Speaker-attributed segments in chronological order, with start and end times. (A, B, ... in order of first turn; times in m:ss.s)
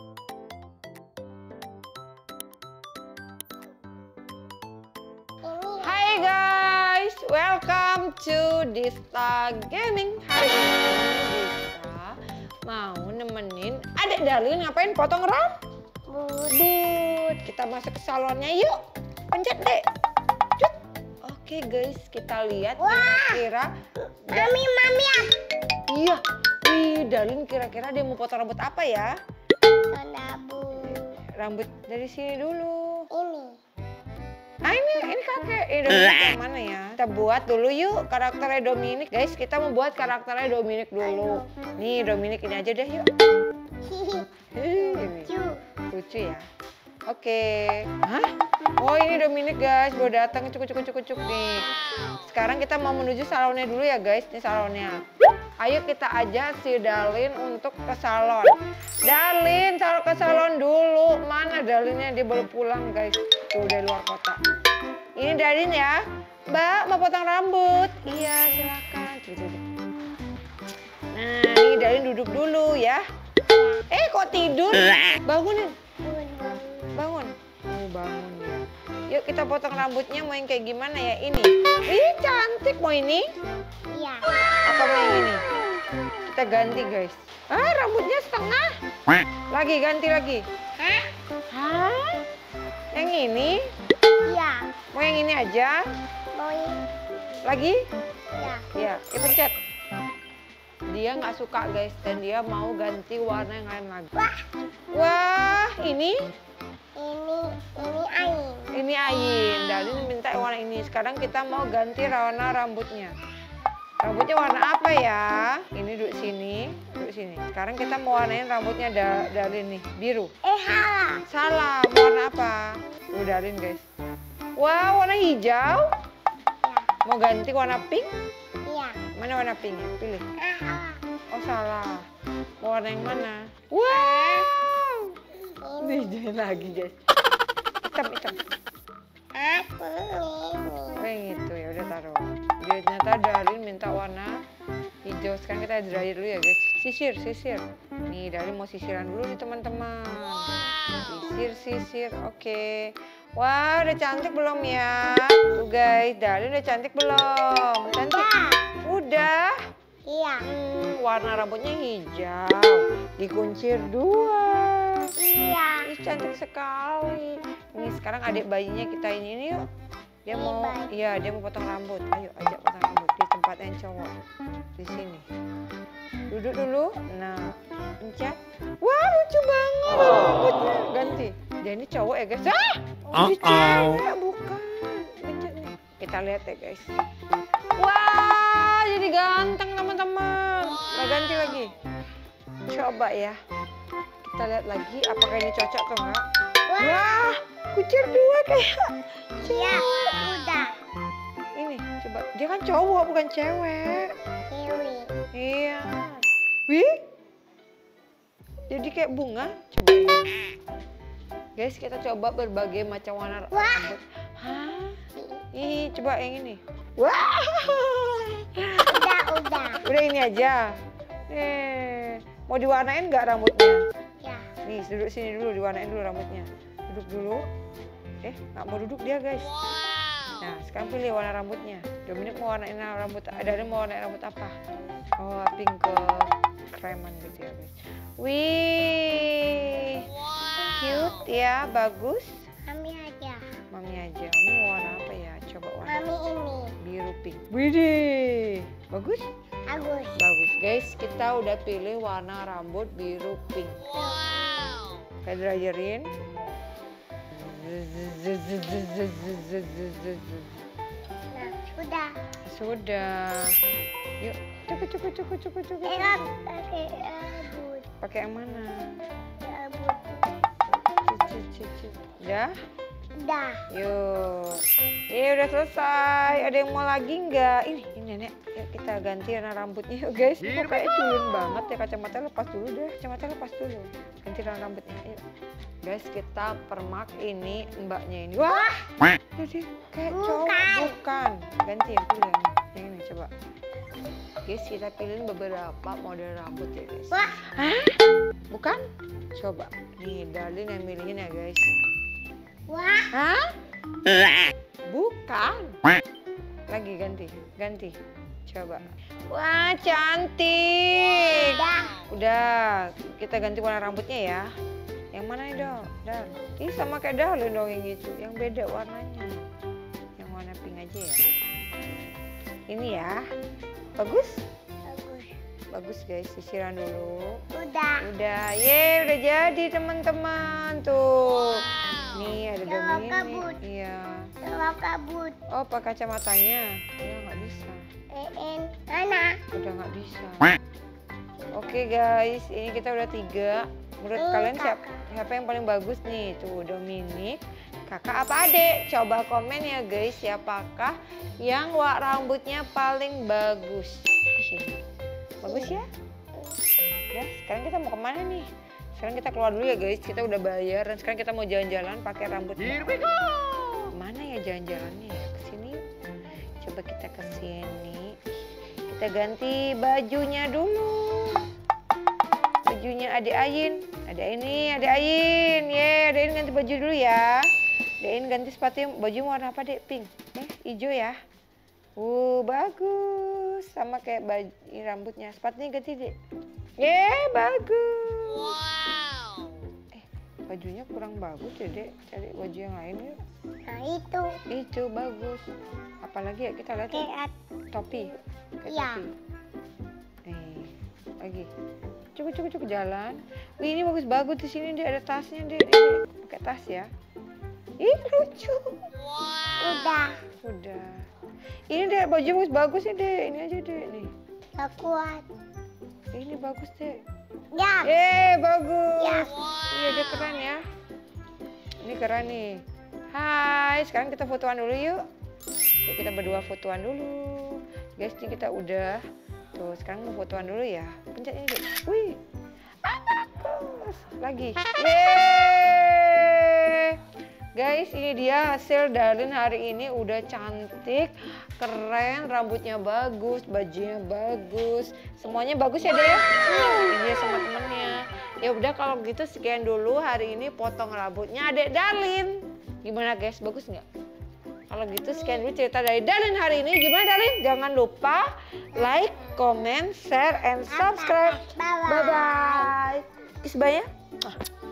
0:05.4-0:06.0 A
0:05.8-0:12.1 B
0:12.7-0:15.5 B
0:16.1-0:16.6 A
0:16.5-0:18.8 B
0:19.3-0:19.8 B
0:20.6-0:23.7 B
0:22.8-0:23.4 A
0:24.3-0:24.6 B
0:24.3-0:25.3 A
0:25.9-0:29.1 B
0:29.9-0:31.2 A
0:30.9-0:33.0 B
0:33.1-0:33.6 A
0:34.6-0:43.1 B
0:41.0-0:41.5 A
0:43.8-0:44.3 A
0:44.5-0:45.3 B
0:45.2-0:45.6 A
0:45.9-0:46.4 B
0:47.1-0:51.7 B
0:52.2-0:55.0 B
0:55.6-0:58.5 B
0:59.0-1:04.4 B
1:05.2-1:06.0 B
1:06.5-1:09.6 B
1:11.1-1:13.0 B
1:13.5-1:13.9 A
1:13.9-1:15.7 B
1:16.0-1:16.9 A
1:17.0-1:23.3 B
1:23.9-1:25.7 A
1:24.6-1:25.5 B
1:26.2-1:28.7 B
1:29.5-1:30.4 B
1:30.8-1:31.1 A
1:31.5-1:32.2 B
1:32.9-1:33.6 B
1:34.2-1:34.7 A
1:34.9-1:35.8 B
1:36.3-1:36.8 A
1:37.4-1:37.8 B
1:38.3-1:38.6 A
1:38.7-1:39.5 B
1:40.9-1:44.1 B
1:44.2-1:44.4 A
1:44.9-1:46.2 B
1:47.0-1:48.7 A
1:48.7-1:53.1 B
1:54.0-2:00.3 B
2:00.4-2:01.2 A
2:01.3-2:03.8 B
2:04.6-2:05.9 B
2:07.0-2:08.1 B
2:08.7-2:09.0 A
2:09.1-2:10.2 B
2:10.4-2:11.0 A
2:11.3-2:12.1 B
2:12.6-2:15.2 B
2:13.9-2:14.5 A
2:15.6-2:16.2 A
2:15.8-2:17.0 B
2:17.8-2:18.4 B
2:19.3-2:21.0 A
2:21.0-2:24.3 B
2:25.0-2:38.3 B
2:37.9-2:38.6 A
2:38.8-2:39.6 B
2:40.0-2:40.5 A
2:40.4-2:45.1 B
2:45.2-2:45.8 A
2:45.8-2:49.6 B
2:50.3-2:54.1 B
2:50.3-2:50.9 A
2:54.8-2:55.2 B
2:56.3-3:06.8 B
3:07.8-3:11.7 B
3:12.7-3:13.4 B
3:14.2-3:16.2 B
3:16.7-3:17.3 A
3:16.8-3:18.9 B
3:19.4-3:20.7 A
3:21.6-3:24.1 B
3:24.5-3:25.1 A
3:25.3-3:27.0 B
3:28.7-3:30.3 B
3:31.6-3:35.0 B
3:33.5-3:33.9 A
3:35.5-3:38.9 B
3:38.9-3:39.8 A
3:39.8-3:40.7 B
3:41.3-3:43.8 B
3:44.6-3:47.4 B
3:48.2-3:49.5 B
3:50.4-3:54.5 B
3:55.2-4:00.1 B
4:00.7-4:02.4 B
4:02.7-4:03.4 A
4:03.7-4:06.1 B
4:05.8-4:06.7 A
4:06.8-4:09.2 B
4:09.7-4:10.2 A
4:10.2-4:13.8 B
4:13.9-4:14.8 A
4:15.2-4:16.1 B
4:17.3-4:20.6 B
4:21.3-4:22.1 A
4:22.5-4:23.6 B
4:24.2-4:26.2 B
4:25.8-4:27.8 A
4:28.0-4:28.9 B
4:29.4-4:30.3 A
4:31.0-4:32.5 B
4:33.2-4:33.6 A
4:33.7-4:45.2 B
4:45.8-4:53.3 B
4:50.1-4:51.0 A
4:54.4-4:58.0 B
4:57.1-4:57.4 A
4:58.5-4:58.8 B
4:59.3-5:01.6 B
5:02.7-5:03.1 A
5:03.1-5:03.4 B
5:04.9-5:05.8 B
5:06.7-5:07.9 B
5:08.5-5:11.5 B
5:11.2-5:12.0 A
5:12.1-5:14.5 B
5:15.1-5:19.4 B
5:20.2-5:21.2 B
5:22.7-5:23.2 B
5:24.0-5:24.4 B
5:24.8-5:25.3 A
5:25.7-5:27.4 B
5:27.5-5:28.0 A
5:28.0-5:34.2 B
5:32.6-5:33.6 A
5:34.4-5:35.4 A
5:35.5-5:37.8 B
5:38.1-5:39.4 A
5:39.5-5:40.6 B
5:41.4-5:41.8 A
5:41.5-5:54.8 B
5:44.2-5:45.0 A
5:55.4-5:55.9 B
5:55.4-5:55.7 A
5:57.1-6:03.2 B
6:03.9-6:05.8 B
6:06.6-6:08.1 B
6:08.9-6:11.4 B
6:12.6-6:17.5 B
6:18.0-6:21.2 B
6:22.0-6:26.1 B
6:26.8-6:28.6 B
6:29.9-6:33.2 B
6:33.6-6:34.3 A
6:34.5-6:35.4 B
6:36.0-6:37.0 B
6:36.9-6:37.3 A
6:37.7-6:39.1 B
6:38.7-6:39.0 A
6:40.3-6:41.5 B
6:42.1-6:46.9 B
6:47.8-6:48.8 B
6:49.6-6:50.2 A
6:50.4-6:50.9 B
6:51.7-6:54.1 B
6:54.6-6:55.2 A
6:56.1-6:56.9 B
6:57.5-6:57.9 A
6:57.8-7:00.6 B
6:59.0-6:59.3 A
7:01.8-7:02.6 B
7:03.1-7:05.0 B
7:05.9-7:09.0 B
7:09.5-7:12.2 B
7:12.8-7:17.0 B
7:17.6-7:33.8 B
7:34.7-7:44.4 B
7:38.8-7:39.3 A
7:40.7-7:42.7 A